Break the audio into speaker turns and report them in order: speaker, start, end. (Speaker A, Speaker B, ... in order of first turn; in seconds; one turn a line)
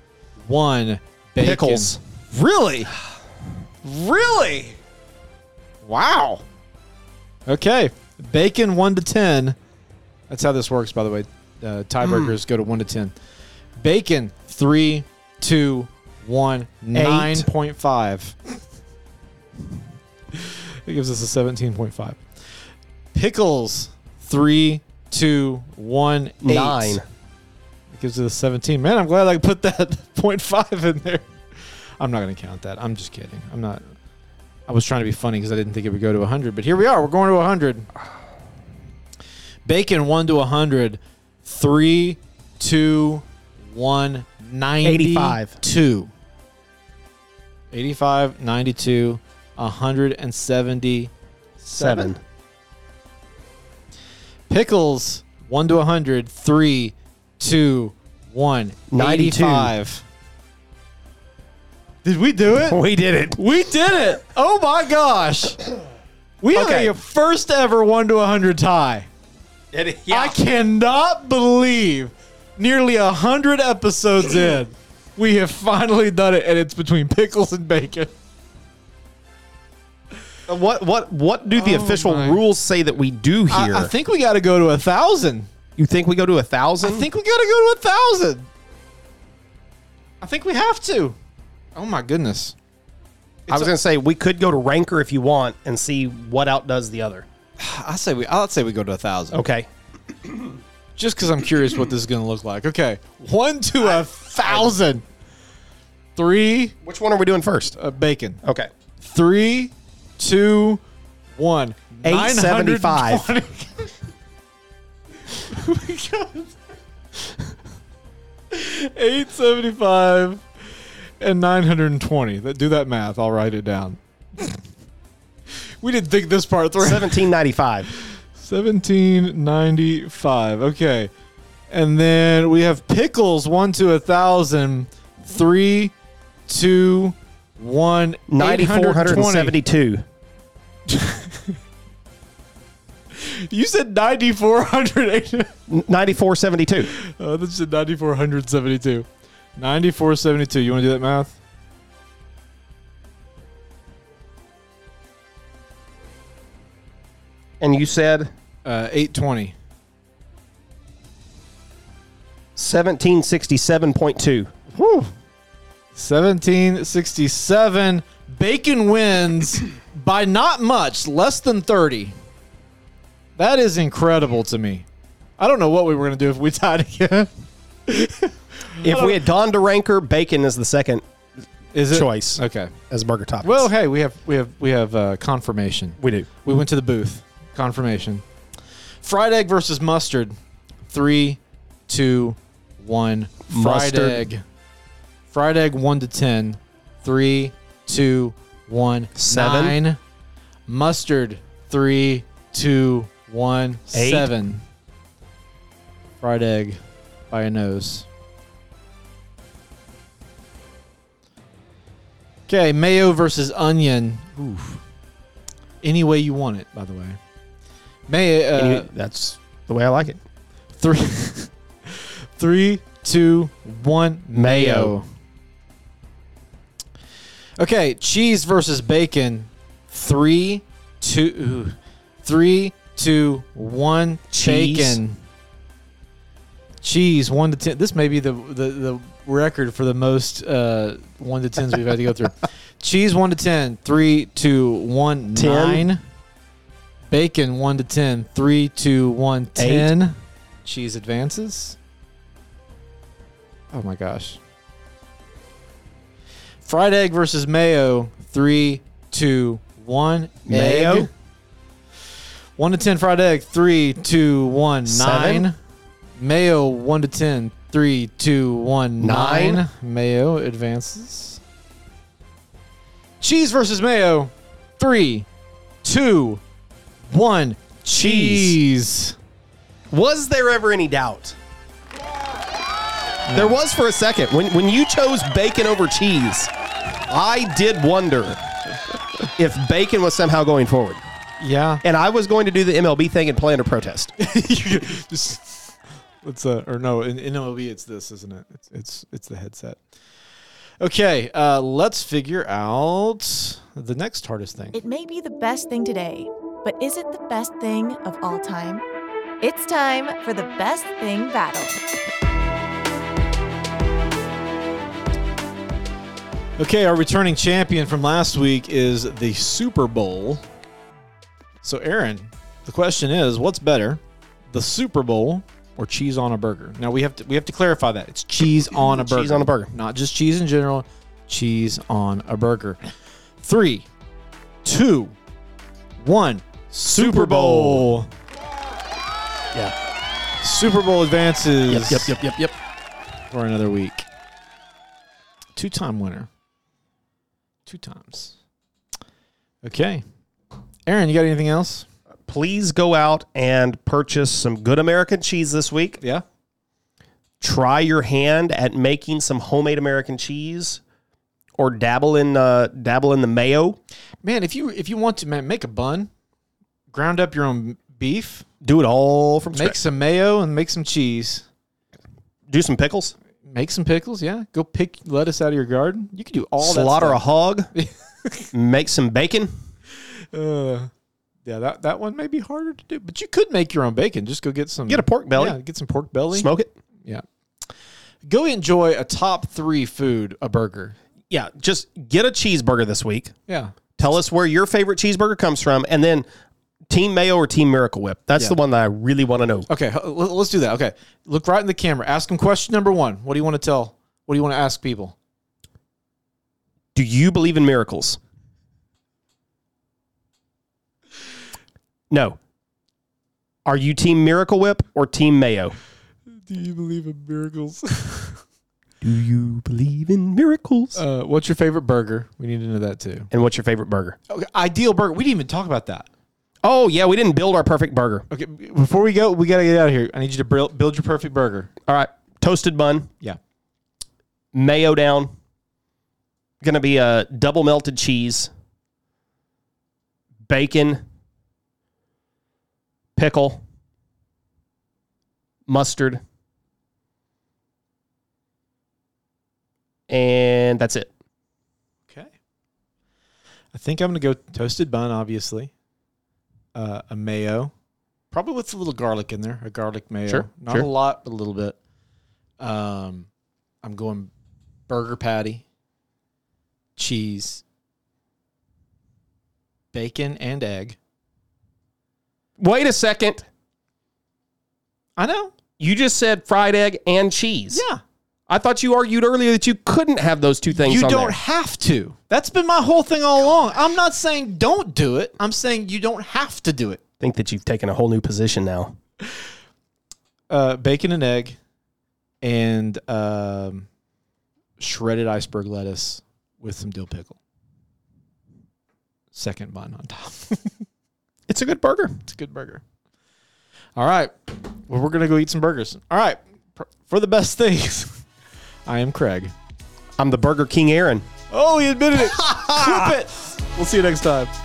Speaker A: 0.4-2.9
Speaker B: 1.4-2.0
Speaker A: 3.8-4.8
Speaker A: 5.8-6.4
Speaker A: 7.5-9.6
Speaker A: 10.3-13.1
Speaker B: 12.1-12.3
Speaker A: 13.8-18.4
Speaker B: 16.9-17.5
Speaker A: 20.3-22.2
Speaker A: 23.1-27.0
Speaker B: 26.4-27.0
Speaker A: 27.9-31.3
Speaker A: 32.0-33.8
Speaker A: 34.7-37.9
Speaker A: 39.6-46.1
Speaker B: 44.8-45.5
Speaker A: 47.7-52.1
Speaker B: 51.8-52.2
Speaker A: 54.5-60.0
Speaker B: 58.9-59.7
Speaker A: 62.0-62.8
Speaker B: 62.5-63.4
Speaker A: 63.3-65.6
Speaker A: 66.4-69.1
Speaker B: 66.5-66.9
Speaker B: 69.7-70.4
Speaker A: 70.1-78.1
Speaker B: 80.5-83.9
Speaker A: 81.5-82.4
Speaker A: 83.5-85.5
Speaker B: 85.8-87.1
Speaker A: 86.8-88.5
Speaker A: 90.2-91.2
Speaker A: 91.8-92.5
Speaker A: 93.5-93.7
Speaker B: 93.5-97.3
Speaker A: 97.6-99.4
Speaker B: 99.3-99.7
Speaker B: 100.2-100.5
Speaker A: 101.0-105.0
Speaker B: 103.8-104.8
Speaker A: 106.2-106.7
Speaker B: 106.8-107.7
Speaker A: 107.8-108.4
Speaker B: 108.4-108.7
Speaker A: 109.0-110.8
Speaker A: 111.4-113.9
Speaker B: 112.0-113.3
Speaker A: 115.3-116.5
Speaker A: 118.5-120.4
Speaker A: 121.2-124.6
Speaker A: 125.5-127.3
Speaker B: 126.8-127.9
Speaker A: 127.9-131.1
Speaker A: 131.7-135.9
Speaker A: 136.5-139.6
Speaker B: 138.3-140.0
Speaker A: 140.9-141.6
Speaker A: 143.1-145.5
Speaker B: 145.7-146.9
Speaker A: 146.8-151.4
Speaker B: 157.6-158.3
Speaker A: 158.6-159.5
Speaker B: 162.6-164.5
Speaker A: 164.7-165.1
Speaker A: 165.9-172.1
Speaker A: 173.4-174.9
Speaker A: 175.4-177.3
Speaker A: 177.9-179.2
Speaker B: 178.8-181.0
Speaker A: 181.7-182.7
Speaker B: 181.9-183.7
Speaker A: 183.4-188.2
Speaker B: 186.0-186.3
Speaker A: 189.0-190.3
Speaker A: 190.9-194.4
Speaker B: 193.5-194.2
Speaker A: 195.3-200.0
Speaker B: 199.2-199.8
Speaker A: 200.7-204.6
Speaker B: 203.9-204.3
Speaker A: 206.2-208.1
Speaker A: 212.5-214.8
Speaker A: 215.8-217.2
Speaker A: 218.1-218.9
Speaker B: 218.5-220.2
Speaker A: 220.8-225.1
Speaker B: 224.3-224.9
Speaker A: 227.6-235.2
Speaker B: 234.3-235.0
Speaker A: 236.8-246.0
Speaker B: 245.3-245.9
Speaker A: 247.1-251.8
Speaker B: 249.6-249.9
Speaker A: 253.7-254.4
Speaker A: 256.6-261.1
Speaker B: 260.5-261.1
Speaker A: 262.6-265.6
Speaker B: 264.9-265.5
Speaker A: 266.2-271.4
Speaker B: 269.0-269.6
Speaker A: 273.2-275.3
Speaker A: 275.8-276.4
Speaker A: 277.1-279.2
Speaker B: 277.9-278.6
Speaker B: 279.9-281.4
Speaker A: 283.2-283.6
Speaker B: 283.3-286.5
Speaker B: 287.1-288.4
Speaker B: 289.4-291.0
Speaker A: 291.4-291.8
Speaker B: 291.8-294.1
Speaker A: 294.2-299.8
Speaker A: 300.8-304.8
Speaker C: 304.7-308.8
Speaker C: 309.4-311.8
Speaker A: 316.6-320.4
Speaker A: 321.6-324.0
Speaker A: 324.5-332.8
Speaker B: 328.8-329.7
Speaker A: 333.4-333.9
Speaker A: 334.6-335.1
Speaker A: 336.0-338.1
Speaker B: 336.8-337.9
Speaker A: 340.4-342.1
Speaker B: 341.7-342.5
Speaker A: 343.3-344.1
Speaker A: 345.6-346.3
Speaker A: 347.6-348.4
Speaker A: 349.6-350.0
Speaker A: 350.9-351.9
Speaker B: 352.3-356.0
Speaker B: 357.4-360.8
Speaker B: 361.6-363.8
Speaker A: 364.2-366.1
Speaker A: 366.9-368.4
Speaker B: 368.6-369.8
Speaker A: 369.5-371.4
Speaker B: 372.5-373.1
Speaker A: 373.4-377.2
Speaker B: 376.6-377.7
Speaker A: 377.7-378.5
Speaker B: 378.5-379.5
Speaker A: 380.3-380.9
Speaker A: 381.4-386.5
Speaker B: 384.9-385.6
Speaker B: 386.3-386.7
Speaker A: 388.2-390.9
Speaker B: 391.3-393.3
Speaker A: 393.5-393.7
Speaker B: 394.0-396.2
Speaker B: 396.9-399.7
Speaker A: 399.7-405.1
Speaker B: 406.9-408.2
Speaker B: 412.1-412.4
Speaker B: 413.6-415.7
Speaker A: 416.4-418.4
Speaker B: 419.0-421.0
Speaker A: 420.9-423.3
Speaker B: 423.3-424.2
Speaker A: 424.3-426.1
Speaker B: 426.6-428.2
Speaker A: 428.3-431.7
Speaker B: 431.9-433.1
Speaker B: 434.5-435.3
Speaker B: 436.6-438.5
Speaker B: 440.4-441.0
Speaker B: 443.1-443.6
Speaker B: 445.7-446.2
Speaker B: 450.1-451.1
Speaker A: 453.7-455.7
Speaker A: 456.7-457.7
Speaker A: 458.3-461.8
Speaker B: 460.3-460.9
Speaker A: 462.6-463.3
Speaker A: 463.8-464.3
Speaker A: 464.9-465.6
Speaker A: 466.9-467.6
Speaker A: 469.9-471.0
Speaker B: 472.6-473.4
Speaker A: 475.2-475.5
Speaker B: 475.8-477.8
Speaker A: 477.7-478.0
Speaker B: 478.5-481.4
Speaker A: 480.7-487.0
Speaker B: 487.2-488.9
Speaker A: 490.5-491.6
Speaker A: 492.4-493.9
Speaker A: 494.8-497.4
Speaker A: 499.3-500.7
Speaker B: 501.5-502.2
Speaker A: 502.2-502.8
Speaker A: 503.9-508.2
Speaker A: 508.9-509.5
Speaker B: 510.2-511.3
Speaker A: 511.5-514.5
Speaker B: 512.4-513.1